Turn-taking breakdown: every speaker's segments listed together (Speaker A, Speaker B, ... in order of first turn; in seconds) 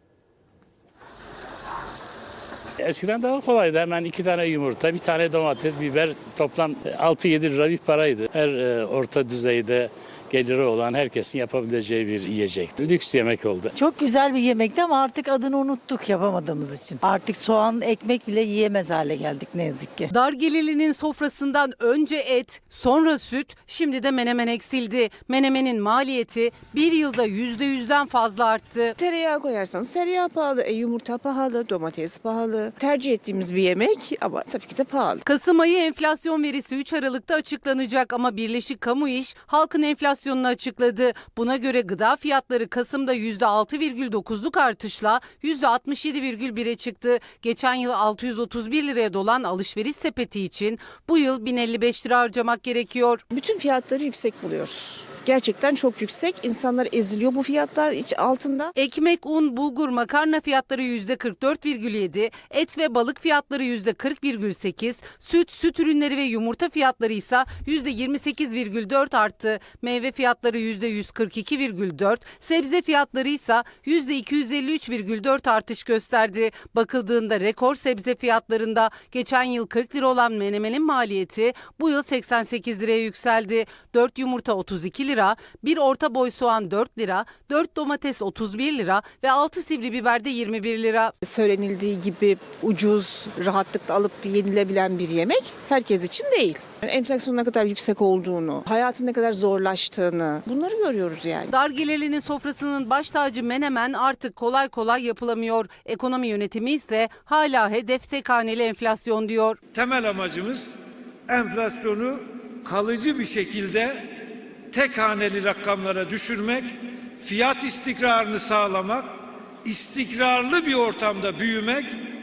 Speaker A: 2.8-13.7
Speaker B: 13.8-20.1
Speaker C: 20.1-28.9, 35.2-53.2, 58.8-91.1, 101.5-109.6
Speaker D: 29.0-35.2, 53.3-58.7, 91.2-101.5
Speaker E: 109.7-110.7, 111.3-114.0, 114.7-116.7, 117.2-119.1, 119.6-121.9